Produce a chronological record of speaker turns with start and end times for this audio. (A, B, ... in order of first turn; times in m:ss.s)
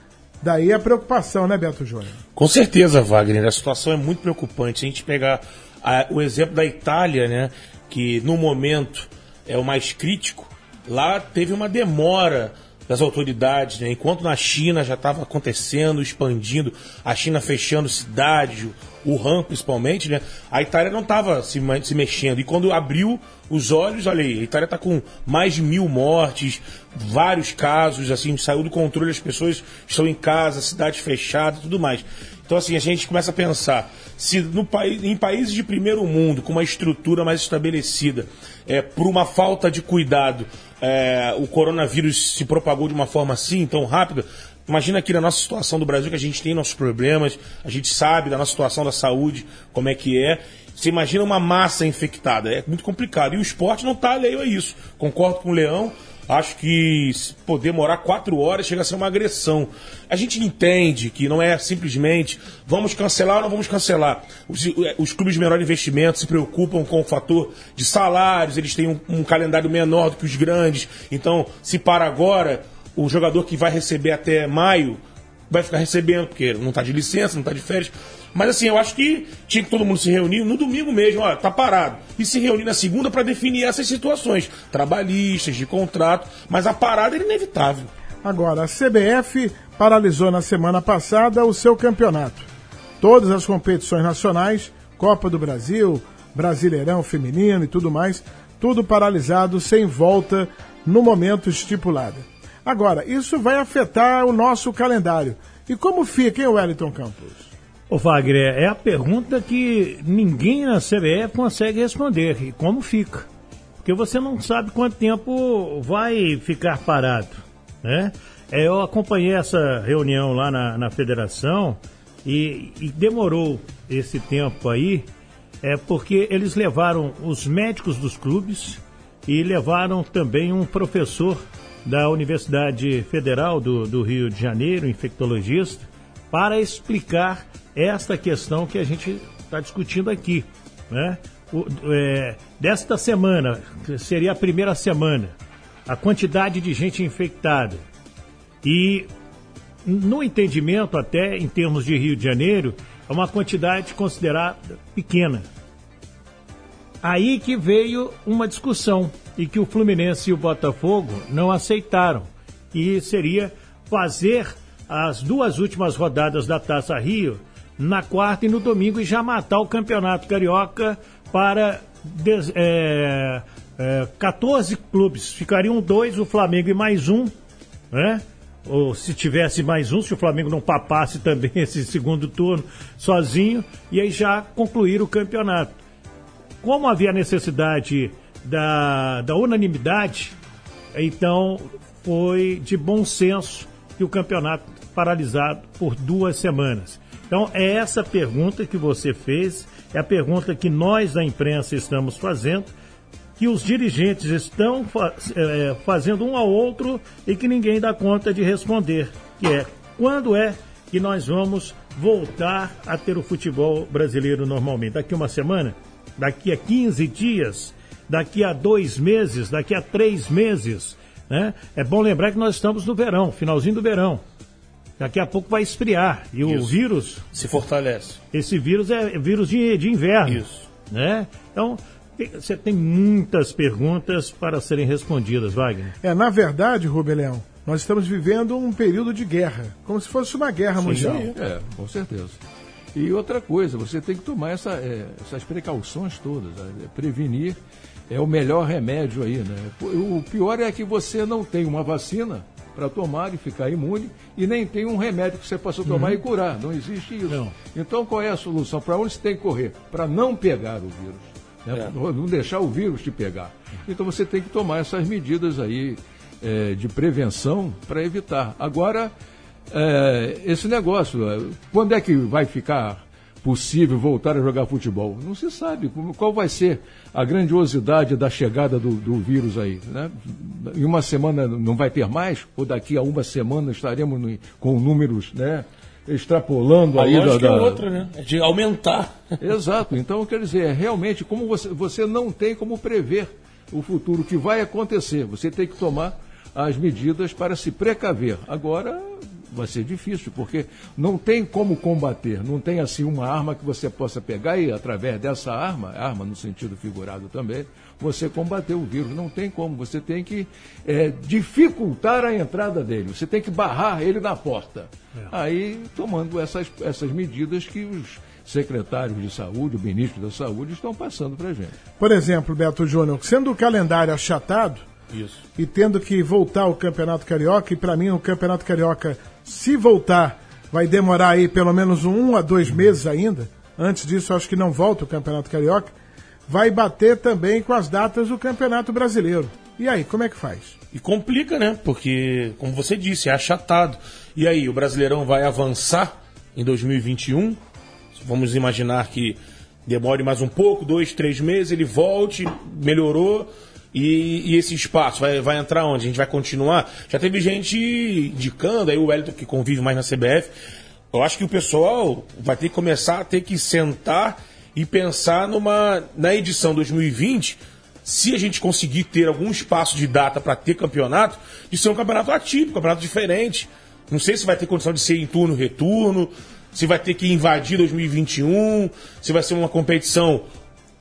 0:00.4-0:02.2 A
0:02.4-1:27.9 B
1:28.2-1:32.5 A
1:33.0-1:47.5 A
1:47.9-1:53.3 C
1:53.8-2:05.1 C
2:05.6-2:25.3 C
2:25.9-2:27.8 C
2:28.6-2:29.1 C
2:29.8-2:35.5 C
2:37.0-2:57.3 C
2:57.9-3:05.7 C
3:06.6-3:10.4 C
3:10.9-3:22.7 C
3:23.4-3:44.2 C
3:45.0-3:47.2 C
3:46.4-3:46.8 B
3:47.3-3:48.2 B
3:48.3-3:56.0 C
3:50.3-3:50.7 B
3:56.0-4:01.4 A
4:00.8-4:02.4 D
4:01.0-4:01.3 B
4:03.0-4:07.6 D
4:08.1-4:29.1 D
4:15.9-4:16.2 C
4:17.3-4:17.6 C
4:29.7-4:47.8 D
4:47.0-4:49.2 B
4:49.4-5:21.8 D
5:22.0-5:24.8 A
5:25.1-5:25.4 B
5:25.6-5:35.9 A
5:36.5-5:40.8 A
5:40.9-5:47.6 B
5:48.2-6:00.5 B
6:01.1-6:20.5 B